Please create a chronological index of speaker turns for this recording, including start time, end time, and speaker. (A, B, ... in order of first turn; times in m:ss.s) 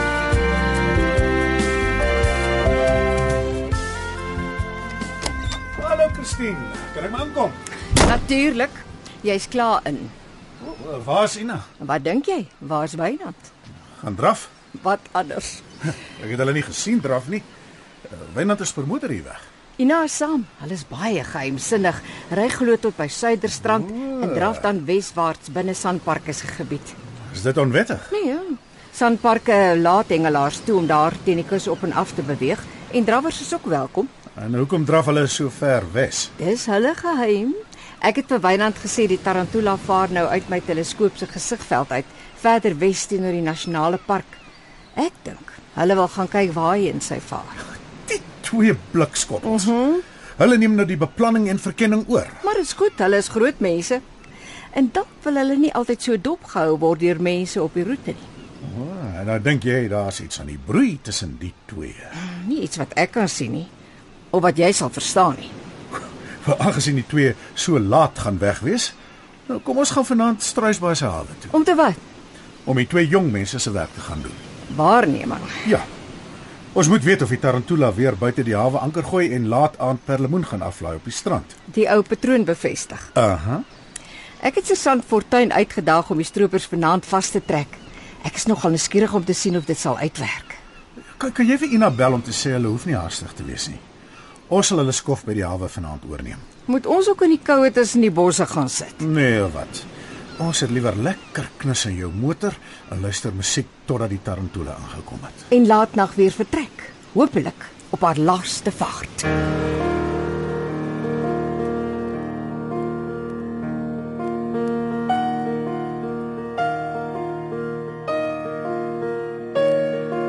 0:05.8-0:07.6 A
0:08.0-0:10.1 B
0:10.6-0:11.6 A
0:11.8-0:13.5 B
0:14.0-0:14.5 A
0:14.7-0:15.6 B
0:16.0-0:17.5 A
0:18.0-0:19.4 A
0:19.8-0:26.9 B
0:24.0-0:24.6 A
0:27.3-0:28.1 A
0:28.1-0:34.1 B
0:34.4-0:36.3 A
0:36.4-0:44.4 B
0:45.0-0:47.6 B
0:48.0-0:49.7 A
0:49.5-0:50.0 B
0:50.4-0:52.4 A
0:52.4-0:54.0 B
0:54.7-0:58.3 B
0:58.6-1:02.1 A
1:02.1-1:03.7 B
1:04.3-1:05.5 B
1:06.4-1:08.9 A
1:09.5-1:11.5 A
1:11.5-1:12.0 B
1:12.6-1:14.4 A
1:14.7-1:15.6 B
1:16.7-1:21.5 A
1:21.7-1:23.1 B
1:23.1-1:23.6 A
1:24.4-1:30.6 B
1:31.2-1:33.8 A
1:34.5-1:36.4 A
1:36.7-1:39.0 B
1:39.0-1:39.9 A
1:40.4-1:45.5 A
1:45.5-1:49.3 B